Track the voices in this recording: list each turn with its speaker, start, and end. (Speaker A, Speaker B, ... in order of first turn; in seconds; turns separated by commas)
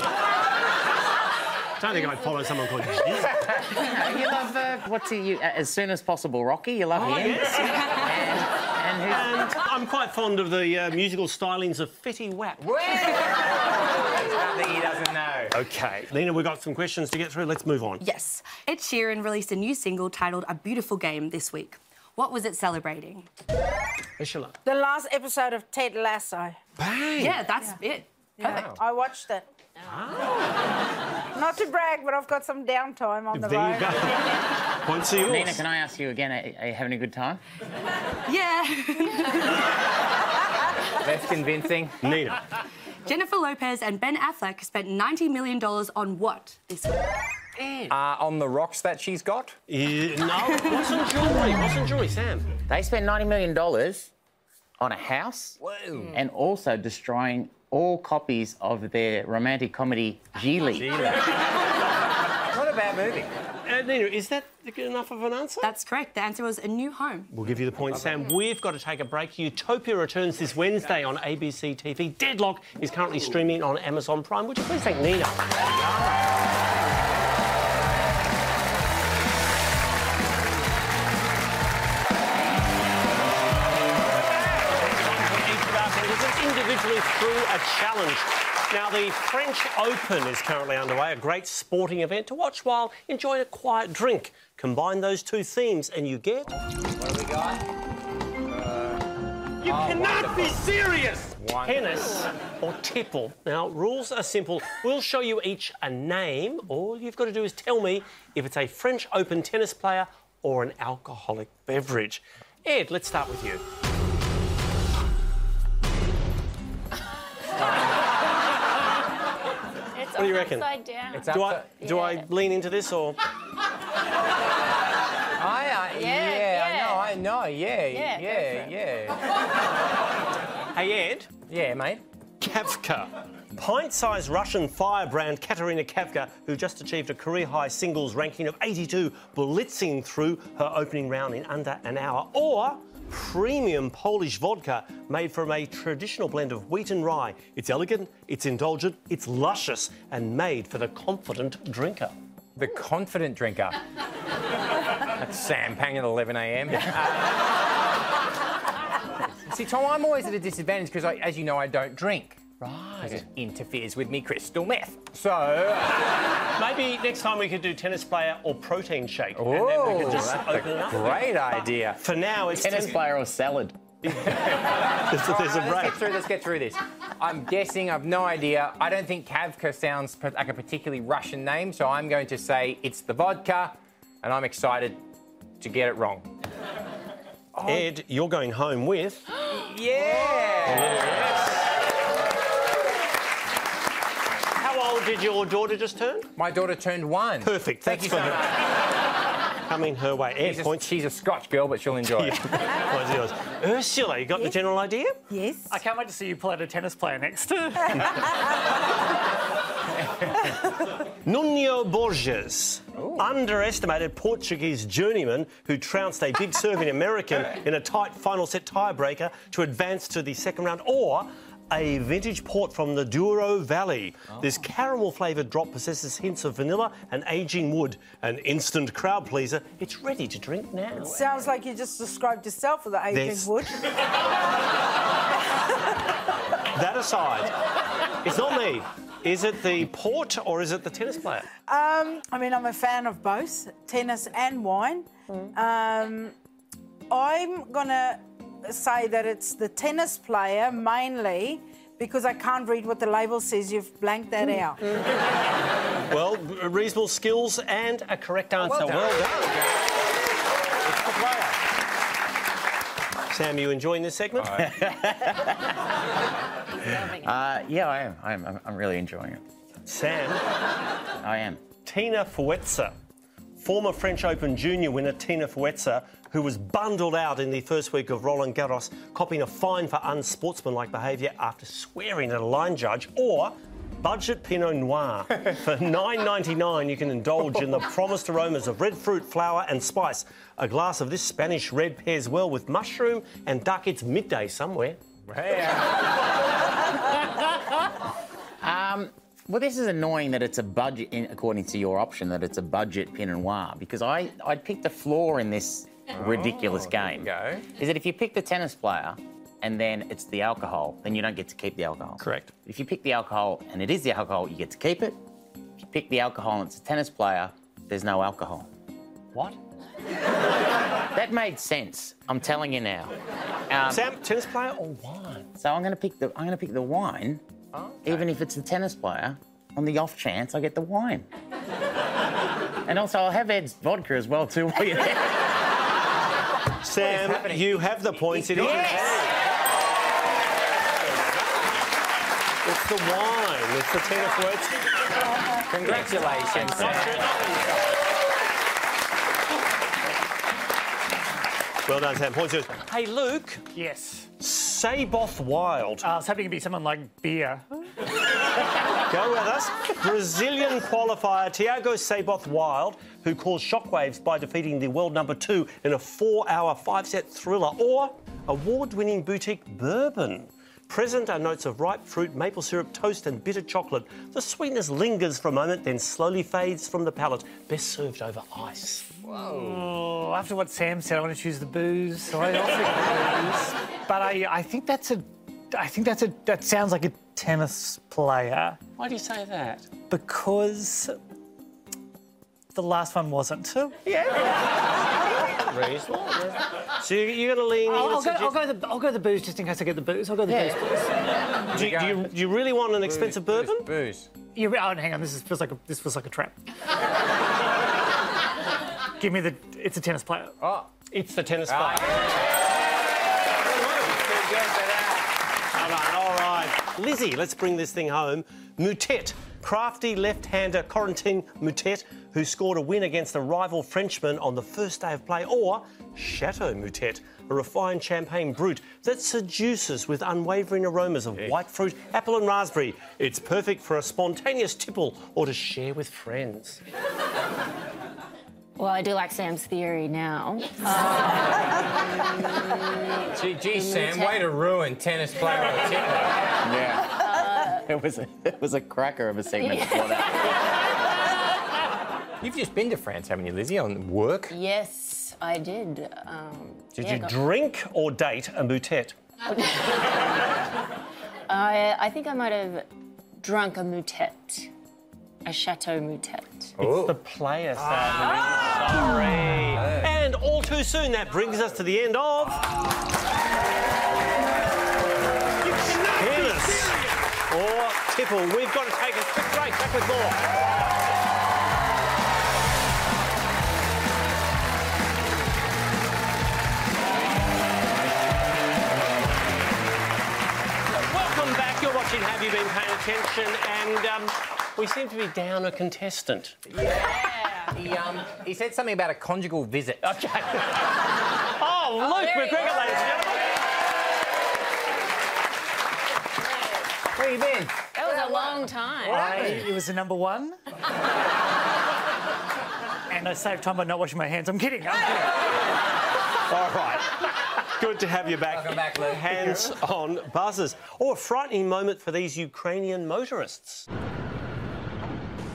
Speaker A: 1.8-3.6, Speaker B: 3.7-9.5, Speaker A: 7.0-8.0, Speaker C: 7.8-8.1, Speaker A: 9.1-12.7, Speaker D: 12.6-15.6, Speaker A: 15.5-18.0, Speaker C: 18.0-23.3, Speaker A: 24.2-24.6, Speaker E: 24.7-26.6, Speaker A: 26.8-27.4, Speaker C: 27.2-28.5, Speaker E: 28.4-29.5, Speaker D: 28.5-28.8, Speaker A: 29.8-30.6, Speaker E: 31.4-34.0, Speaker A: 33.3-35.6, Speaker B: 35.2-37.4, Speaker C: 38.3-39.7, Speaker D: 41.0-42.0, Speaker A: 42.0-42.4, Speaker C: 43.1-47.1, Speaker A: 47.6-47.9, Speaker D: 47.9-49.6, Speaker A: 49.7-52.5, Speaker C: 50.6-51.0, Speaker B: 52.7-54.1, Speaker B: 54.8-61.1, Speaker D: 55.6-56.2, Speaker D: 60.7-61.6, Speaker D: 62.5-63.3, Speaker A: 63.7-65.7, Speaker C: 65.6-67.3, Speaker A: 67.3-76.2, Speaker A: 84.6-96.5, Speaker D: 96.9-97.7, Speaker D: 98.5-99.0, Speaker D: 99.6-102.0, Speaker A: 99.6-113.6, Speaker D: 117.6-118.0, Speaker F: 119.9-122.3, Speaker A: 120.2-123.2, Speaker D: 121.2-121.7, Speaker D: 125.4-129.2, Speaker F: 125.9-127.2, Speaker F: 127.9-128.8, Speaker A: 130.7-131.3, Speaker D: 131.5-132.0, Speaker A: 132.4-152.2, Speaker D: 152.6-153.8, Speaker D: 155.1-157.5, Speaker D: 159.5-162.4, Speaker A: 162.6-163.3, Speaker D: 163.0-166.2, Speaker A: 166.6-173.0, Speaker D: 169.3-172.0, Speaker B: 172.6-173.8, Speaker A: 174.1-176.1, Speaker D: 174.3-185.0, Speaker D: 185.6-186.3, Speaker D: 187.6-187.9, Speaker A: 187.6-189.3, Speaker D: 189.4-191.6, Speaker A: 190.6-191.6, Speaker A: 194.6-196.3, Speaker D: 196.4-198.6, Speaker A: 197.4-198.6, Speaker A: 199.7-200.9, Speaker D: 200.4-202.7, Speaker A: 202.0-205.2, Speaker E: 205.3-205.8, Speaker G: 205.7-208.3, Speaker A: 211.2-231.2, Speaker D: 213.0-213.3, Speaker E: 231.0-233.8, Speaker A: 233.1-233.6, Speaker A: 236.7-237.5, Speaker A: 238.2-241.5, Speaker E: 241.7-246.3, Speaker E: 247.1-254.8, Speaker A: 256.1-259.6, Speaker D: 258.6-259.9, Speaker D: 260.9-261.5, Speaker A: 260.9-261.5, Speaker A: 263.3-264.7, Speaker B: 264.6-265.7, Speaker F: 266.8-267.3, Speaker B: 267.1-269.4, Speaker A: 269.9-270.4, Speaker B: 271.2-271.6, Speaker A: 271.9-272.9, Speaker A: 273.6-295.0, Speaker D: 295.3-296.1, Speaker B: 298.6-315.2, Speaker D: 306.1-307.7, Speaker A: 312.2-312.5, Speaker B: 315.8-318.7, Speaker B: 321.1-323.2, Speaker B: 323.7-324.1, Speaker A: 323.9-325.5, Speaker B: 325.6-327.4, Speaker D: 327.7-328.2, Speaker B: 328.0-331.3, Speaker B: 332.9-335.5, Speaker A: 336.8-339.4, Speaker D: 336.9-339.4, Speaker A: 342.6-344.8, Speaker D: 345.7-347.3, Speaker A: 345.8-347.8, Speaker A: 351.9-353.6, Speaker G: 353.7-354.3, Speaker A: 354.4-356.1, Speaker G: 356.0-357.9, Speaker A: 359.1-379.1, Speaker D: 379.2-379.9, Speaker G: 379.3-388.8, Speaker A: 389.0-389.9, Speaker G: 390.1-391.1, Speaker G: 392.7-394.0, Speaker A: 395.3-398.6, Speaker G: 397.9-401.2, Speaker D: 401.7-402.3, Speaker A: 401.7-403.9, Speaker D: 403.0-404.3, Speaker G: 404.6-406.6, Speaker G: 409.2-410.6, Speaker D: 410.6-410.9, Speaker A: 411.1-412.3, Speaker D: 411.7-412.4, Speaker D: 413.7-415.3, Speaker A: 415.7-436.8, Speaker F: 438.8-444.6, Speaker D: 443.4-446.5, Speaker B: 446.6-450.5, Speaker F: 447.1-447.9, Speaker F: 449.5-450.7, Speaker D: 452.4-454.5, Speaker F: 454.5-457.4, Speaker A: 457.0-459.2, Speaker F: 459.5-460.1, Speaker F: 461.5-464.7, Speaker F: 465.4-466.7, Speaker D: 466.8-467.2, Speaker A: 466.8-472.7, Speaker D: 467.8-469.0, Speaker D: 469.7-470.1, Speaker A: 476.1-480.5, Speaker A: 490.9-496.6, Speaker D: 496.7-500.2, Speaker F: 497.2-497.7, Speaker A: 500.0-500.8, Speaker A: 501.6-503.5, Speaker F: 502.0-503.2, Speaker D: 507.2-507.8, Speaker F: 507.9-509.6, Speaker G: 509.1-510.6, Speaker G: 513.1-515.4, Speaker A: 516.5-523.9, Speaker D: 518.5-519.8